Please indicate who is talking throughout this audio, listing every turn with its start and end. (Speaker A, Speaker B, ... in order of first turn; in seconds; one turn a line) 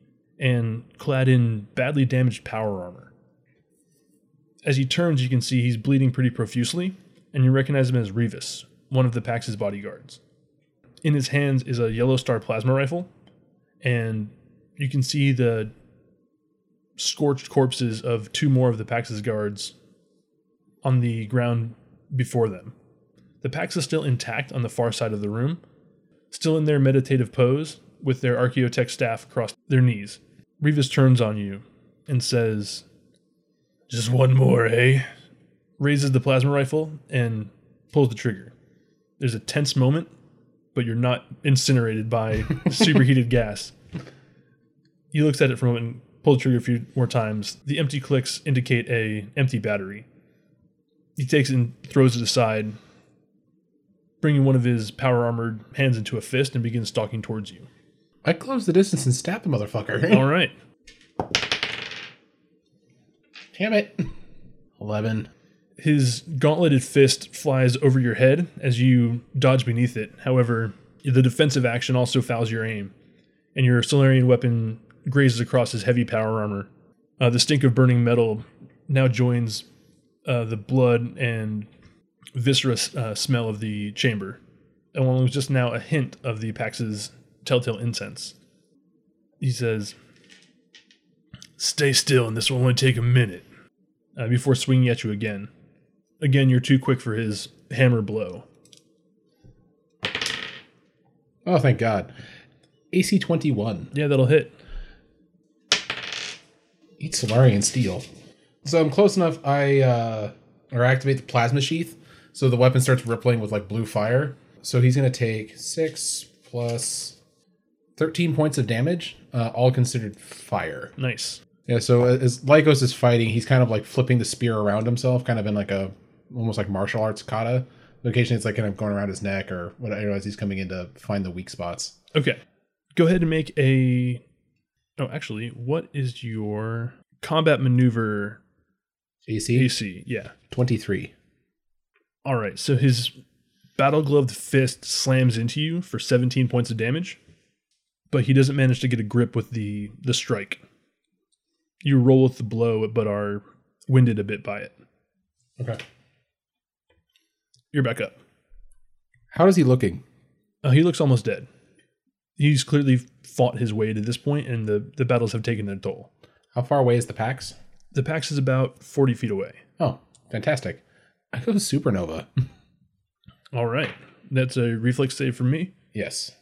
Speaker A: 0.4-3.1
Speaker A: 4.6-10.2
Speaker A: 11.0-13.1
Speaker A: 13.8-15.7
Speaker A: 17.0-19.7
Speaker A: 20.8-22.8
Speaker A: 23.4-25.6
Speaker A: 26.3-32.9
Speaker A: 33.9-35.1
Speaker A: 35.8-38.5
Speaker A: 39.2-40.1
Speaker A: 40.7-43.7
Speaker A: 45.1-50.1
Speaker A: 51.2-52.8
Speaker A: 54.2-57.7
Speaker B: 58.2-60.3
Speaker A: 60.1-60.5
Speaker B: 63.5-64.1
Speaker B: 64.8-65.3
Speaker A: 65.8-72.9
Speaker A: 73.5-79.7
Speaker A: 80.2-81.7
Speaker A: 82.3-84.4
Speaker A: 84.9-88.3
Speaker A: 89.4-90.0
Speaker A: 91.6-93.5
Speaker A: 94.2-95.5
Speaker A: 96.2-98.5
Speaker B: 101.5-102.1
Speaker B: 102.9-103.9
Speaker A: 103.9-104.5
Speaker B: 107.0-108.1
Speaker B: 108.6-117.2
Speaker B: 118.0-120.9
Speaker A: 121.0-121.4
Speaker B: 121.7-132.0
Speaker A: 132.1-132.4
Speaker A: 132.9-134.2
Speaker A: 135.0-138.4
Speaker B: 139.3-139.7
Speaker A: 139.5-140.3
Speaker B: 140.5-141.1
Speaker A: 142.2-143.1
Speaker A: 143.8-147.2
Speaker A: 148.1-150.6
Speaker A: 151.8-154.7
Speaker A: 157.7-158.2
Speaker B: 159.3-160.0
Speaker A: 160.6-161.5
Speaker A: 162.4-166.1
Speaker B: 166.5-167.6
Speaker A: 167.9-169.6
Speaker B: 169.8-172.3
Speaker A: 173.5-175.8
Speaker B: 175.9-176.3